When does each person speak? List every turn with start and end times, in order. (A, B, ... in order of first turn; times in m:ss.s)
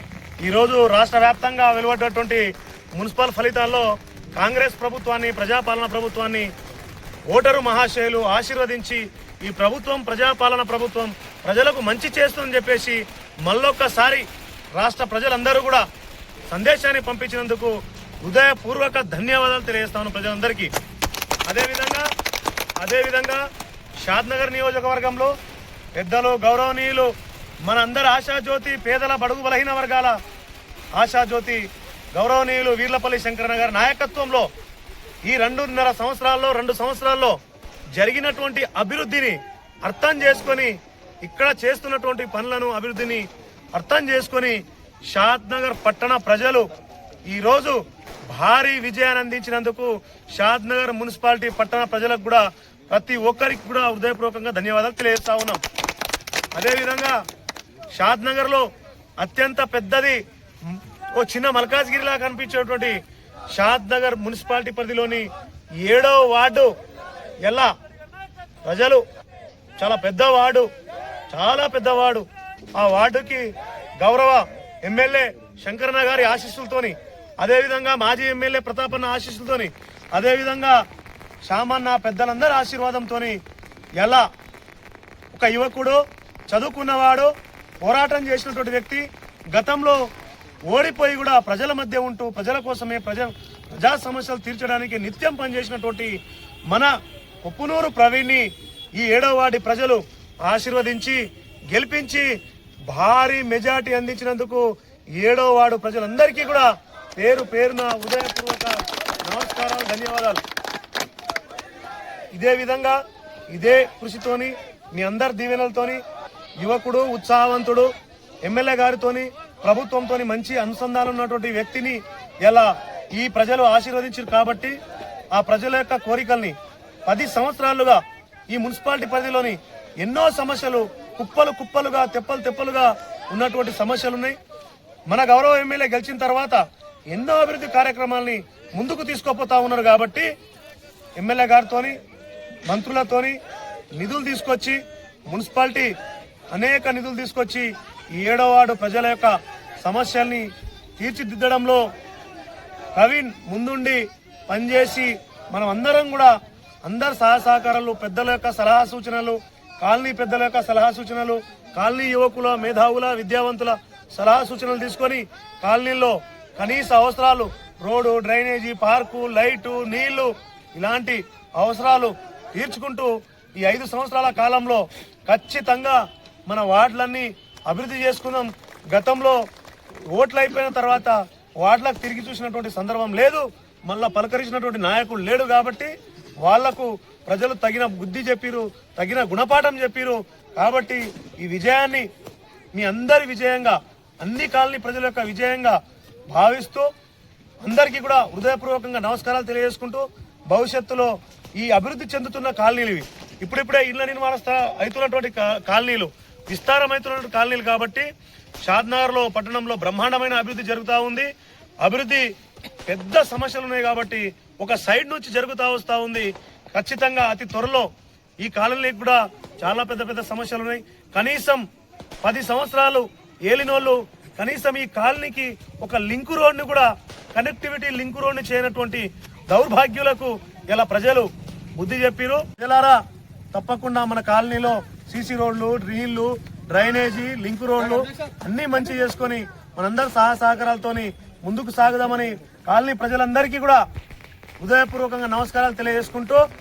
0:00.4-0:06.5 A
0:07.3-0:15.8 A
0:16.5-0:20.7 A
0:21.5-0:22.1 A
0:22.8-0:23.4 A
0:24.0-0:25.3 A
0:26.0-0:30.2 A
0:30.9-0:34.5 A
0:35.2-0:37.4 A
0:37.9-0:46.7 A
0:47.3-0:55.6 A
0:56.5-0:57.2 A
0:57.9-0:58.7 A
0:59.2-1:03.0 A
1:03.5-1:05.3 A
1:05.8-1:06.7 A
1:07.4-1:07.7 A
1:08.6-1:09.0 A
1:09.8-1:10.7 A
1:11.3-1:20.8 A
1:21.4-1:23.4 A
1:24.0-1:24.3 A
1:25.3-1:30.0 A
1:30.7-1:36.1 A
1:36.7-1:42.3 A
1:42.9-1:50.4 A
1:52.3-1:53.0 A
1:53.5-1:56.0 A
1:56.6-1:57.9 A
1:58.4-2:04.7 A
2:05.3-2:14.4 A
2:15.1-2:20.3 A
2:21.2-2:22.0 A
2:22.7-2:23.4 A
2:24.0-2:25.9 A
2:26.5-2:31.9 A
2:32.9-2:36.3 A
2:36.8-2:59.4 A
3:00.1-3:12.1 A
3:12.7-3:15.8 A
3:16.3-3:16.9 A
3:17.6-3:28.1 A
3:28.6-3:31.3 A
3:31.8-3:32.3 A
3:32.8-3:37.9 A
3:38.4-3:41.6 A
3:42.2-3:53.0 A
3:53.5-4:03.8 A
4:04.6-4:06.4 A